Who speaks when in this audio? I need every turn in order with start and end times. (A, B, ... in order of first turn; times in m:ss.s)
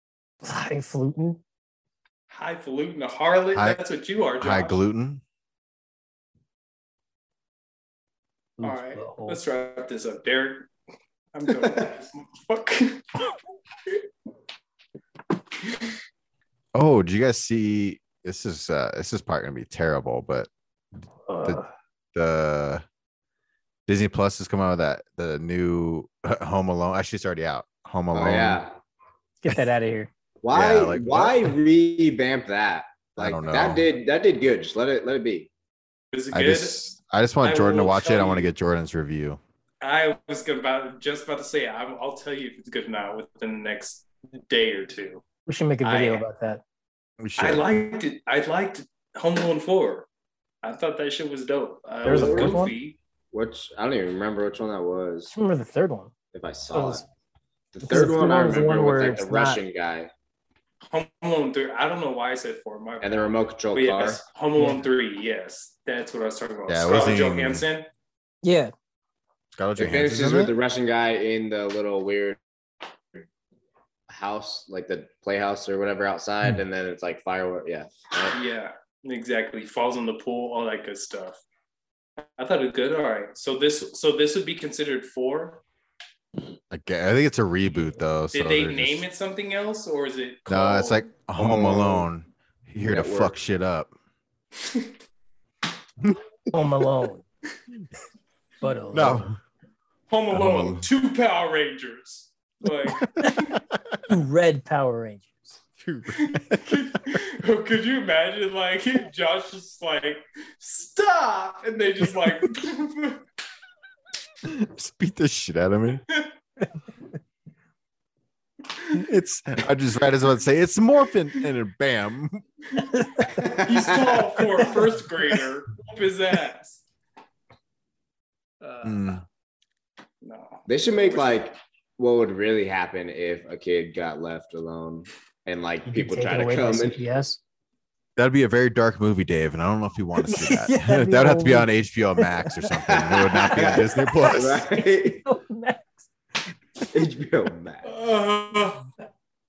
0:00.4-0:01.4 A
0:02.3-0:04.8 B
0:03.5-0:03.8 C
0:04.4-0:05.2 C
0:08.6-0:09.4 A
0:08.6-0:10.7 B
0:11.3-0:13.0 B
0:16.7-0:20.5 C
0:21.3-0:21.7 A
0:22.2-0:22.8 C
0:23.9-0:28.6 C
0:28.1-0:28.8 D
0:29.4-0:30.1 A
0:30.4-0:35.5 D
0:30.5-0:31.5 C
0:33.2-0:33.8 C
0:36.1-0:36.8 B
0:36.3-0:39.4 C
0:37.4-0:38.5 B
0:39.8-0:45.2 B
0:45.5-0:46.6 A
0:45.8-0:46.3 B
0:47.2-0:47.7 C
0:47.4-0:50.1 B
0:50.6-0:53.0 B
0:52.0-0:52.7 D
0:52.0-0:52.7 A
0:53.3-0:55.3 D
0:55.3-0:56.1 A
0:56.3-0:57.0 D
0:56.7-0:57.0 A
0:57.7-1:00.1 D
0:57.8-0:59.6 A
1:00.9-1:07.9 B
1:03.0-1:04.2 D
1:04.6-1:04.8 A
1:06.7-1:07.7 C
1:08.4-1:08.7 A
1:09.6-1:10.5 C
1:09.8-1:12.4 D
1:14.1-1:18.4 D
1:18.3-1:21.4 B
1:22.2-1:25.6 B
1:26.7-1:29.0 C
1:28.3-1:31.0 B
1:30.5-1:33.9 C
1:31.4-1:32.1 D
1:32.8-1:33.4 D
1:36.5-1:37.2 A
1:38.6-1:39.3 A
1:38.9-1:39.4 C
1:40.1-1:43.6 B
1:40.3-1:40.9 C
1:44.1-1:45.6 A
1:45.8-1:47.0 C
1:46.1-1:53.2 B
1:54.4-1:56.0 C
1:56.1-1:56.3 B
1:58.9-2:02.4 C
2:02.7-2:03.1 B
2:03.0-2:03.3 A
2:03.3-2:04.3 D
2:03.6-2:06.8 B
2:08.6-2:09.2 B
2:08.8-2:09.2 C
2:10.2-2:11.4 B
2:10.7-2:17.0 D
2:15.9-2:17.4 A
2:18.2-2:24.6 C
2:20.2-2:26.1 A
2:22.8-2:25.2 D
2:26.9-2:27.9 D
2:27.8-2:28.9 B